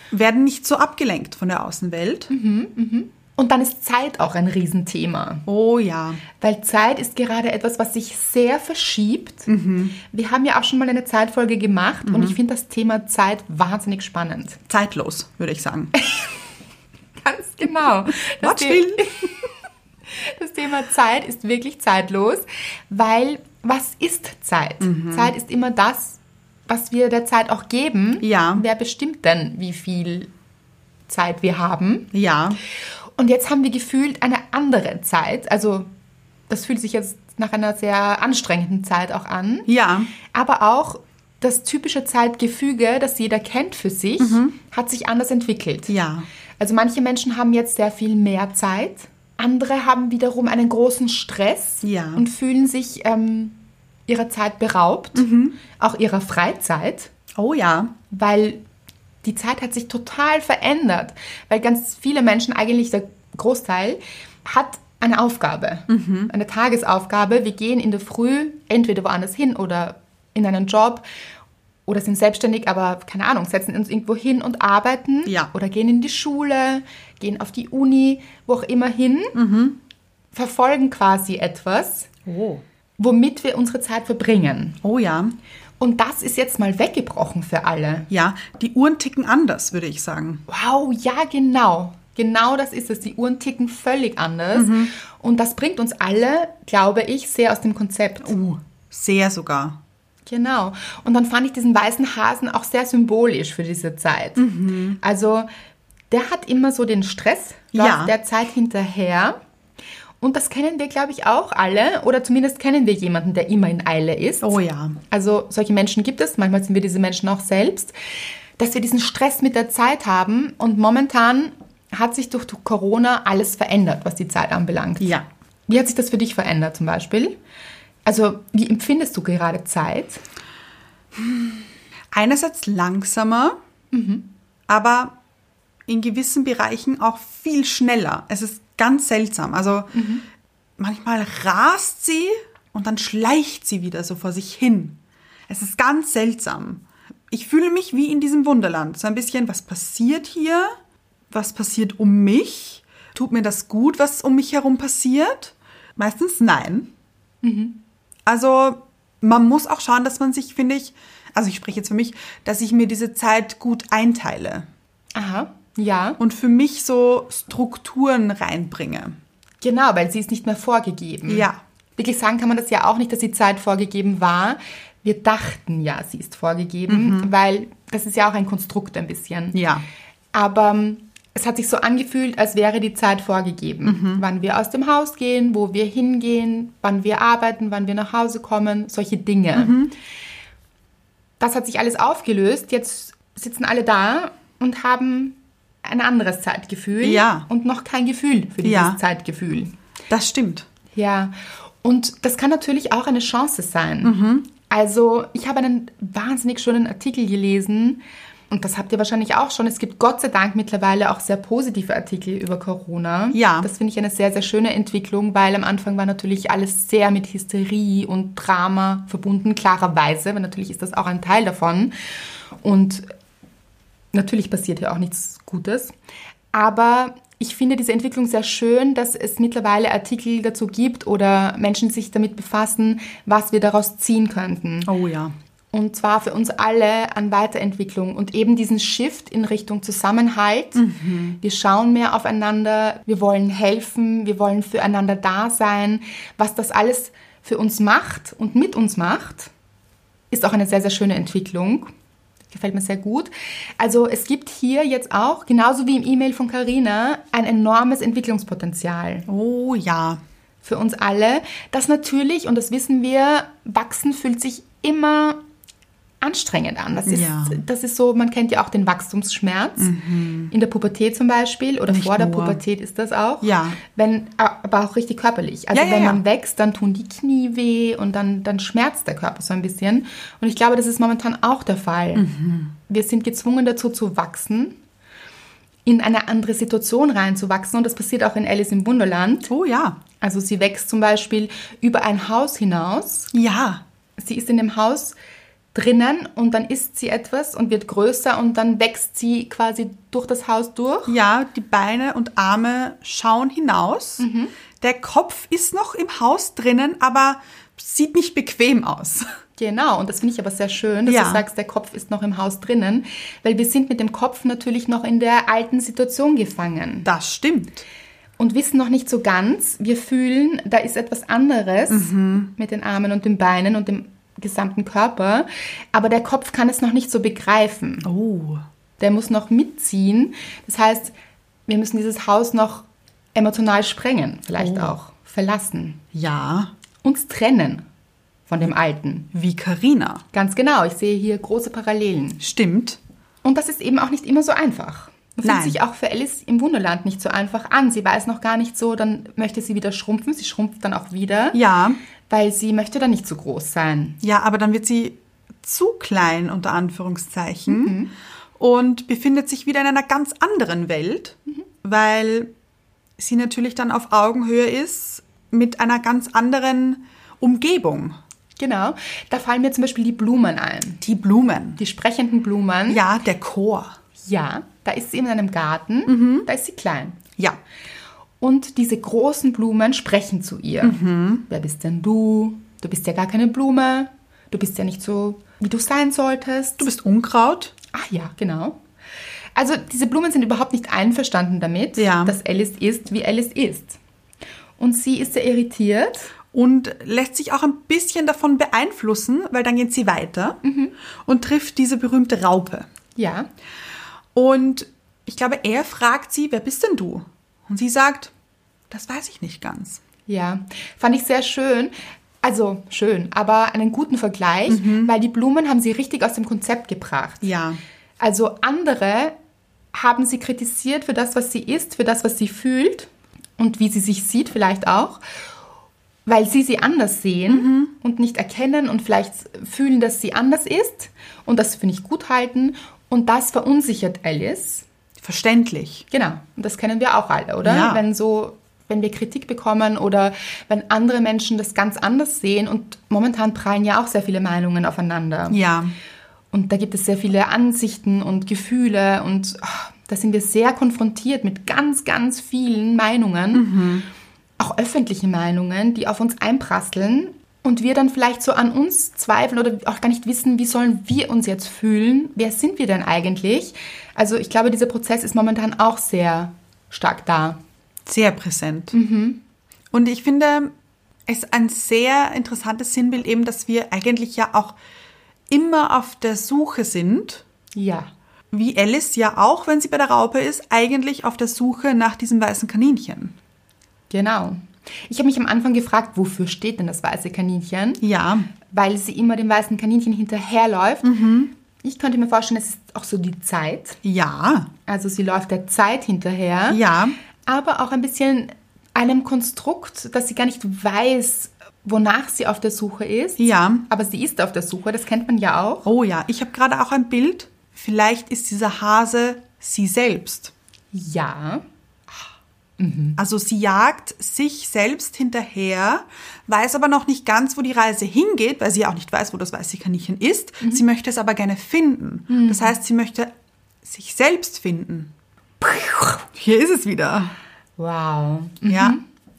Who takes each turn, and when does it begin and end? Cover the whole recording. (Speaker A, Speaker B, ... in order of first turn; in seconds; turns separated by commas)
Speaker A: 0.1-2.3, Speaker B: 2.3-5.5, Speaker A: 5.5-6.2, Speaker B: 6.4-9.5, Speaker A: 9.5-10.0, Speaker B: 10.0-14.6, Speaker A: 12.1-12.3, Speaker A: 14.7-15.9, Speaker B: 16.0-16.3, Speaker B: 17.2-19.4, Speaker A: 18.4-19.1, Speaker B: 20.1-30.3, Speaker A: 24.8-25.3, Speaker A: 28.2-28.6, Speaker B: 31.1-32.1, Speaker A: 32.1-32.6, Speaker B: 33.2-35.9, Speaker B: 36.5-39.7, Speaker A: 39.7-40.1, Speaker B: 40.2-45.9, Speaker A: 44.2-44.5, Speaker A: 45.9-46.3, Speaker B: 46.6-57.1, Speaker A: 51.8-52.2, Speaker A: 55.1-55.6, Speaker A: 57.3-57.9, Speaker B: 58.1-58.6, Speaker B: 59.2-71.0, Speaker A: 65.9-66.3, Speaker B: 71.9-79.3, Speaker A: 75.2-75.5, Speaker A: 79.3-79.8, Speaker B: 80.3-82.1, Speaker A: 82.2-82.6, Speaker B: 83.0-84.8, Speaker A: 84.8-85.3, Speaker B: 85.8-88.1, Speaker A: 88.1-90.4, Speaker B: 90.5-98.3, Speaker A: 94.5-94.9, Speaker A: 98.2-99.8, Speaker B: 100.2-104.4, Speaker A: 104.4-105.0, Speaker B: 105.0-105.5, Speaker B: 106.1-109.4, Speaker A: 107.7-108.1, Speaker B: 110.2-114.6, Speaker A: 114.4-115.0, Speaker B: 115.1-117.9, Speaker B: 118.6-127.4, Speaker A: 125.0-125.2, Speaker B: 128.0-130.2, Speaker A: 131.1-133.6, Speaker B: 133.9-134.3, Speaker A: 134.7-135.2, Speaker A: 135.9-139.9, Speaker B: 139.9-140.2, Speaker A: 140.8-150.7, Speaker A: 151.3-156.9, Speaker B: 157.4-157.8, Speaker A: 158.2-164.7, Speaker B: 165.1-166.2, Speaker A: 166.2-169.2, Speaker B: 169.6-179.6, Speaker A: 171.3-171.6, Speaker A: 176.9-177.3, Speaker A: 179.5-179.8, Speaker B: 180.3-189.8, Speaker A: 183.8-184.2, Speaker A: 189.5-189.9, Speaker B: 191.4-199.7, Speaker A: 197.0-197.5, Speaker A: 198.6-199.0, Speaker A: 200.1-200.7, Speaker B: 200.9-221.9, Speaker A: 204.0-204.5, Speaker A: 213.3-213.7, Speaker B: 222.6-223.1, Speaker B: 224.1-225.9, Speaker B: 226.5-234.9, Speaker A: 234.8-235.3, Speaker B: 235.7-240.8, Speaker A: 240.7-241.4, Speaker B: 241.4-249.5, Speaker B: 250.3-251.9, Speaker B: 252.5-259.3, Speaker A: 259.3-260.2, Speaker B: 260.6-265.4, Speaker B: 266.2-269.9, Speaker A: 267.1-267.6, Speaker A: 269.8-270.5, Speaker B: 270.5-282.3, Speaker A: 271.9-272.6, Speaker A: 273.4-273.8, Speaker A: 275.7-276.2, Speaker A: 282.1-282.7, Speaker B: 282.9-284.8, Speaker B: 285.8-289.5, Speaker A: 289.5-290.0, Speaker B: 290.2-293.3, Speaker A: 293.3-293.8, Speaker B: 294.2-295.1, Speaker B: 295.7-301.1, Speaker A: 301.1-304.2, Speaker B: 304.2-304.5, Speaker A: 304.8-309.2, Speaker B: 309.6-317.1, Speaker A: 311.1-311.4, Speaker A: 317.0-317.8, Speaker B: 318.4-328.1, Speaker A: 321.9-322.5, Speaker A: 328.0-328.6, Speaker B: 329.0-331.1, Speaker B: 331.7-336.0, Speaker A: 334.6-334.9, Speaker A: 336.1-336.7, Speaker B: 337.0-337.8, Speaker B: 338.5-339.3, Speaker A: 339.3-340.2, Speaker B: 340.3-342.4, Speaker A: 342.4-343.0, Speaker B: 343.4-351.6, Speaker A: 345.4-345.8, Speaker A: 351.5-352.0, Speaker B: 352.3-354.2, Speaker A: 354.2-358.0, Speaker B: 357.7-358.1, Speaker A: 358.6-362.5, Speaker A: 363.2-368.2, Speaker B: 368.6-371.0, Speaker A: 371.0-371.8, Speaker B: 371.8-373.0, Speaker A: 372.9-373.9, Speaker B: 374.2-377.2, Speaker A: 376.1-376.5, Speaker B: 378.4-386.9, Speaker A: 380.8-381.4, Speaker A: 386.8-387.7, Speaker B: 387.9-388.8, Speaker B: 389.6-394.0, Speaker A: 392.0-392.4, Speaker B: 394.8-396.3, Speaker A: 396.5-400.6, Speaker B: 400.6-400.9, Speaker A: 401.2-402.9, Speaker B: 403.1-403.5, Speaker A: 404.3-408.3, Speaker A: 408.9-410.0, Speaker B: 410.3-417.5, Speaker A: 414.7-415.1, Speaker A: 417.4-417.8, Speaker B: 418.2-419.3, Speaker B: 419.9-425.2, Speaker B: 426.2-434.8, Speaker A: 427.5-427.9, Speaker A: 435.2-436.0, Speaker B: 436.1-445.6, Speaker A: 437.6-438.0, Speaker A: 445.5-445.9, Speaker B: 446.5-453.7, Speaker A: 453.5-454.1, Speaker B: 454.6-467.6, Speaker A: 468.1-468.9, Speaker B: 468.9-469.4, Speaker A: 469.9-470.7, Speaker A: 471.3-474.8, Speaker A: 475.5-477.4, Speaker B: 477.7-478.1, Speaker A: 478.5-483.3, Speaker B: 484.1-488.0, Speaker A: 488.0-488.5, Speaker B: 488.7-491.1, Speaker A: 491.0-491.5, Speaker B: 491.8-494.0, Speaker A: 494.0-494.7, Speaker B: 494.9-496.8, Speaker A: 496.7-497.1, Speaker B: 497.4-505.9, Speaker A: 503.4-503.8, Speaker A: 505.8-510.5, Speaker B: 510.9-511.6, Speaker B: 512.8-513.2, Speaker A: 513.2-523.3, Speaker B: 522.3-522.7, Speaker A: 523.8-525.1, Speaker B: 525.6-526.2, Speaker A: 526.3-527.3, Speaker B: 527.8-529.0, Speaker A: 528.7-529.0